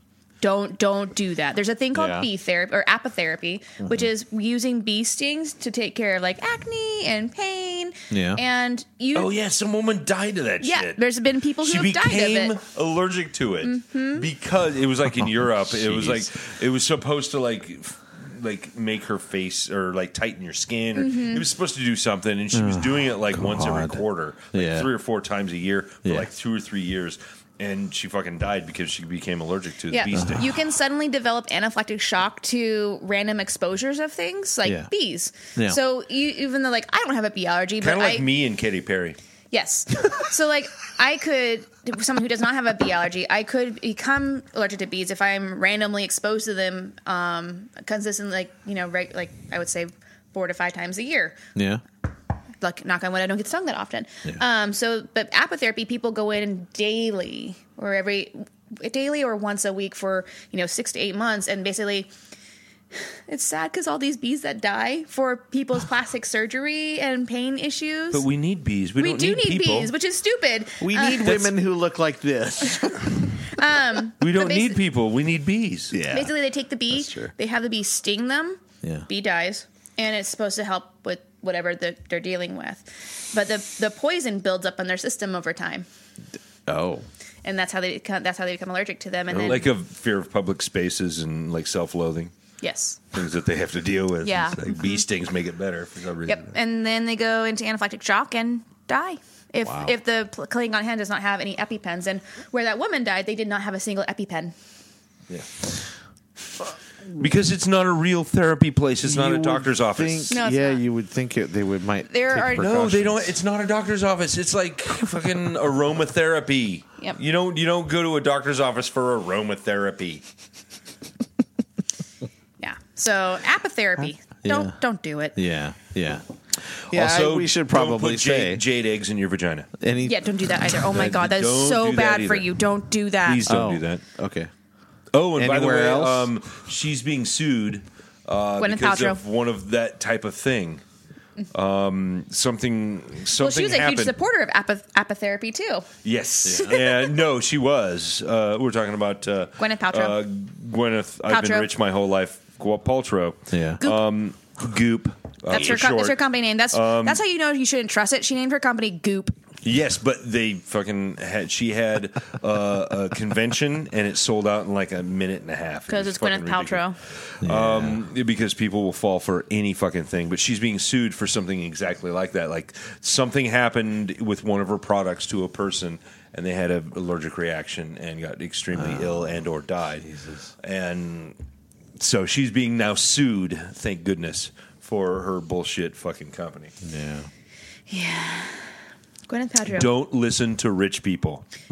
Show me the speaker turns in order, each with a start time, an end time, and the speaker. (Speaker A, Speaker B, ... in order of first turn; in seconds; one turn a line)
Speaker A: 0.4-9.3
Speaker B: 1.9-2.3
Speaker B: 3.8-4.1
Speaker B: 8.1-8.4
Speaker C: 9.1-11.0
Speaker A: 10.6-12.6
Speaker C: 11.6-30.6
Speaker A: 13.6-14.3
Speaker B: 15.2-16.3
Speaker A: 20.9-21.5
Speaker B: 22.5-24.9
Speaker A: 29.9-38.3
Speaker B: 30.1-30.4
Speaker B: 34.6-34.9
Speaker C: 37.8-39.2
Speaker A: 39.5-51.4
Speaker B: 51.5-51.8
Speaker A: 52.6-62.1
Speaker A: 63.0-68.3
Speaker C: 68.1-69.9
Speaker A: 69.0-71.5
Speaker B: 70.8-73.3
Speaker C: 71.2-71.5
Speaker A: 73.5-74.8
Speaker C: 74.2-76.0
Speaker B: 75.9-76.3
Speaker A: 76.1-85.9
Speaker B: 76.9-77.3
Speaker B: 86.7-87.1
Speaker A: 87.5-89.7
Speaker B: 89.3-89.7
Speaker C: 89.4-92.3
Speaker A: 92.6-93.0
Speaker C: 93.1-96.5
Speaker A: 94.2-95.0
Speaker A: 96.3-104.5
Speaker B: 99.6-99.9
Speaker C: 107.2-110.4
Speaker B: 109.0-113.3
Speaker A: 110.3-110.8
Speaker A: 112.1-112.7
Speaker C: 112.6-120.2
Speaker A: 122.6-125.4
Speaker B: 124.4-124.8
Speaker B: 125.3-126.2
Speaker B: 126.9-128.6
Speaker C: 126.9-129.7
Speaker B: 129.8-130.2
Speaker A: 130.0-133.4
Speaker C: 130.9-132.5
Speaker C: 133.2-134.0
Speaker B: 133.4-134.5
Speaker C: 135.1-140.8
Speaker B: 135.4-136.3
Speaker A: 138.6-139.2
Speaker C: 141.5-144.1
Speaker A: 143.4-145.9
Speaker C: 146.0-157.2
Speaker B: 146.4-146.8
Speaker A: 146.6-146.9
Speaker A: 149.6-150.2
Speaker A: 151.3-151.7
Speaker B: 153.5-153.8
Speaker A: 155.5-159.3
Speaker C: 159.6-180.1
Speaker A: 165.9-167.0
Speaker B: 167.4-168.0
Speaker B: 178.7-179.4
Speaker B: 180.0-180.5
Speaker C: 180.6-181.4
Speaker C: 182.0-186.7
Speaker B: 186.8-187.3
Speaker A: 187.9-188.7
Speaker A: 189.3-189.9
Speaker C: 189.7-191.4